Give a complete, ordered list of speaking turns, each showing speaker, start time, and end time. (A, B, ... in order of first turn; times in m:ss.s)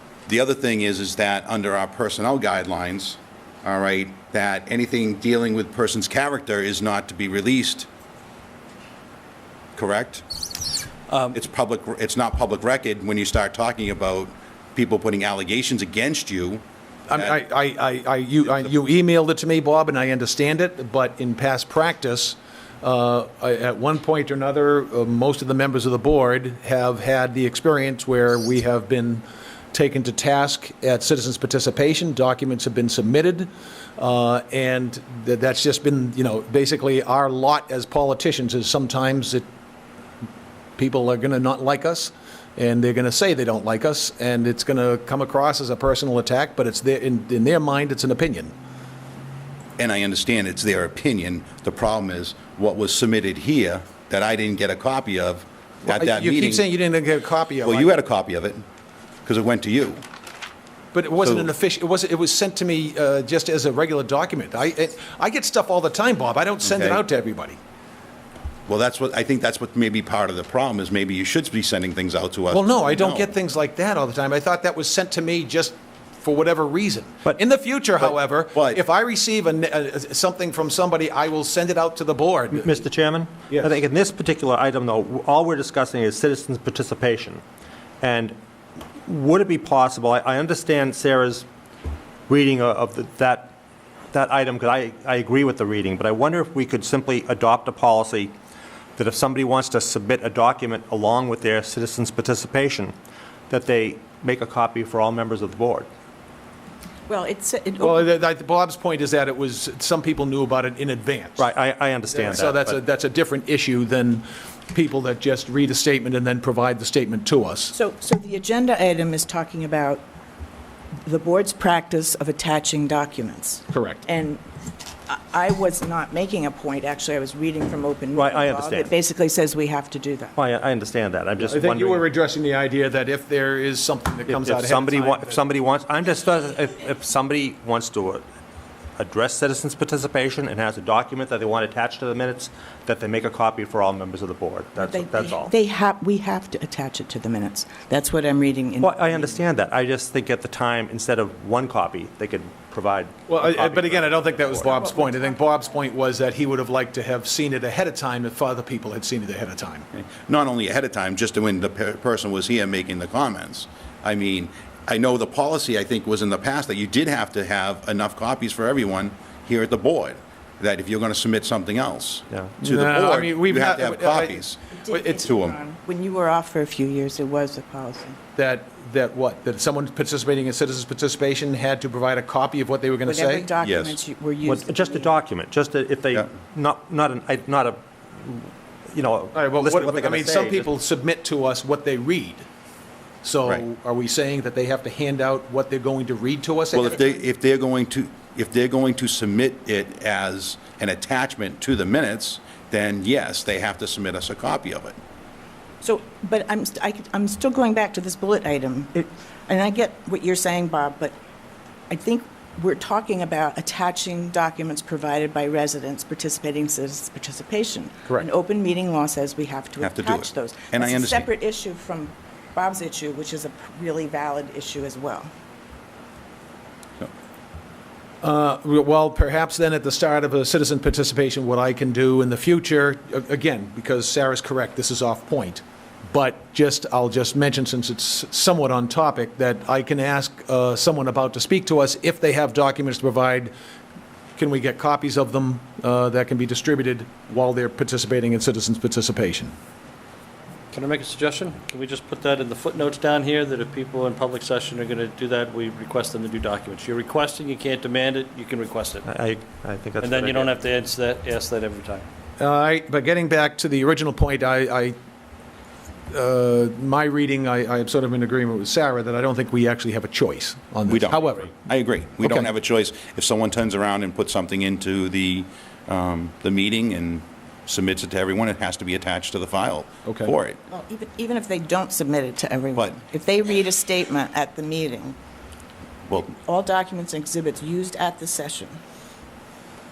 0:00.3-0:07.9 A
0:09.8-0:10.2 A
0:11.3-0:16.6 A
0:17.1-0:39.4 B
0:40.8-0:48.5 B
0:49.8-0:56.6 A
0:55.8-0:57.9 B
0:57.6-0:58.6 A
0:59.2-1:00.0 A
1:00.9-1:07.6 B
1:06.6-1:07.0 A
1:08.7-1:13.3 A
1:12.5-1:22.8 B
1:18.5-1:18.8 A
1:22.5-1:27.4 C
1:28.0-1:28.4 C
1:29.0-1:31.5 C
1:32.3-1:33.5 C
1:34.1-1:38.3 C
1:39.0-1:42.9 C
1:43.5-1:45.9 C
1:47.1-1:48.0 D
1:47.8-1:51.4 B
1:51.4-1:52.8 C
1:52.1-1:57.7 B
1:57.7-2:00.0 D
2:01.0-2:04.4 D
2:03.7-2:04.0 B
2:05.1-2:10.3 D
2:08.1-2:08.9 C
2:10.4-2:12.0 C
2:11.4-2:15.4 B
2:14.3-2:18.2 C
2:19.0-2:25.5 C
2:24.8-2:29.4 D
2:28.8-2:34.9 C
2:33.3-2:39.9 B
2:34.8-2:35.7 D
2:39.9-2:54.6 A
2:52.6-2:55.2 B
2:54.8-2:58.2 D
2:55.2-2:55.6 A
2:58.4-3:03.5 B
3:03.0-3:05.1 D
3:03.6-3:04.0 A
3:04.4-3:10.7 C
3:09.3-3:12.4 B
3:13.2-3:17.0 B
3:16.7-3:25.0 A
3:25.8-3:31.2 D
3:31.9-3:45.3 D
3:39.8-3:41.3 A
3:48.2-4:03.5 B
4:04.4-4:09.5 B
4:10.7-4:19.0 E
4:19.1-4:20.5 C
4:20.0-4:22.0 E
4:22.4-4:24.9 B
4:26.1-4:31.5 B
4:30.9-4:40.6 A
4:32.2-4:32.5 B
4:40.0-4:40.3 B
4:40.7-4:45.2 D
4:46.1-4:46.3 A
4:46.2-4:48.8 D